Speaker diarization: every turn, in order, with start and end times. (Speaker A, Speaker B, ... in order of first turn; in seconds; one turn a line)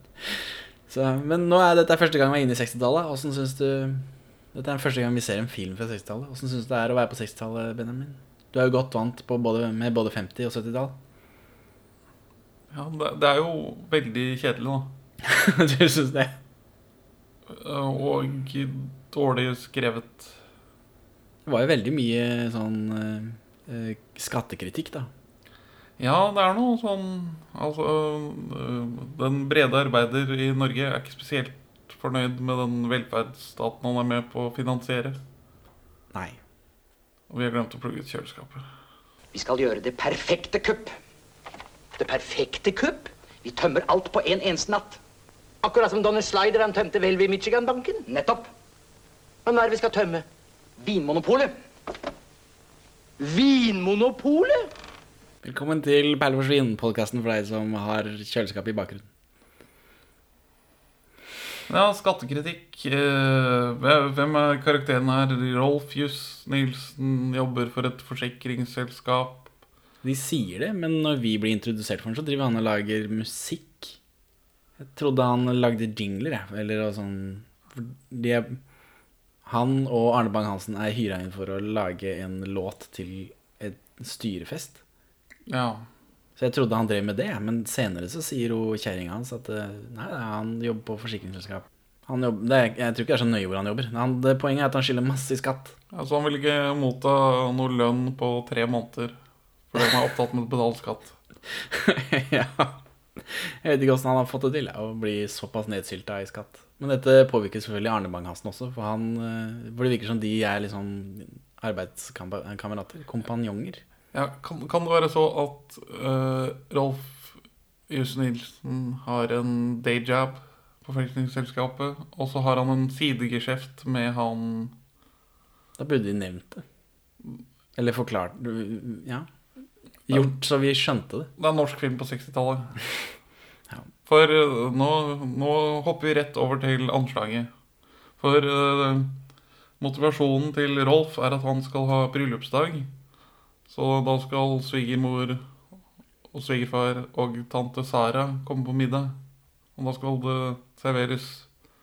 Speaker A: 0.9-10.9
Speaker B: 12.7-14.9
Speaker A: 15.2-16.3
Speaker B: 17.5-20.4
Speaker A: 21.4-25.1
Speaker B: 26.0-35.2
Speaker A: 36.1-36.4
Speaker B: 37.3-38.6
Speaker C: 39.3-40.9
Speaker C: 42.0-45.0
Speaker C: 45.6-48.5
Speaker C: 49.5-50.2
Speaker C: 50.8-51.5
Speaker C: 53.2-54.6
Speaker A: 55.4-59.1
Speaker B: 61.7-69.5
Speaker A: 70.0-74.0
Speaker A: 74.8-78.6
Speaker A: 79.4-84.8
Speaker B: 85.5-85.9
Speaker A: 86.4-95.8
Speaker B: 95.9-99.2
Speaker B: 99.7-101.2
Speaker A: 101.7-113.8
Speaker B: 114.1-117.4
Speaker B: 117.9-124.7
Speaker A: 125.8-126.6
Speaker A: 127.8-129.3
Speaker A: 130.1-131.3
Speaker B: 131.4-132.8
Speaker B: 134.1-137.5
Speaker B: 138.2-139.2
Speaker B: 139.8-142.9
Speaker B: 143.7-145.4
Speaker B: 146.3-149.2
Speaker B: 149.8-151.5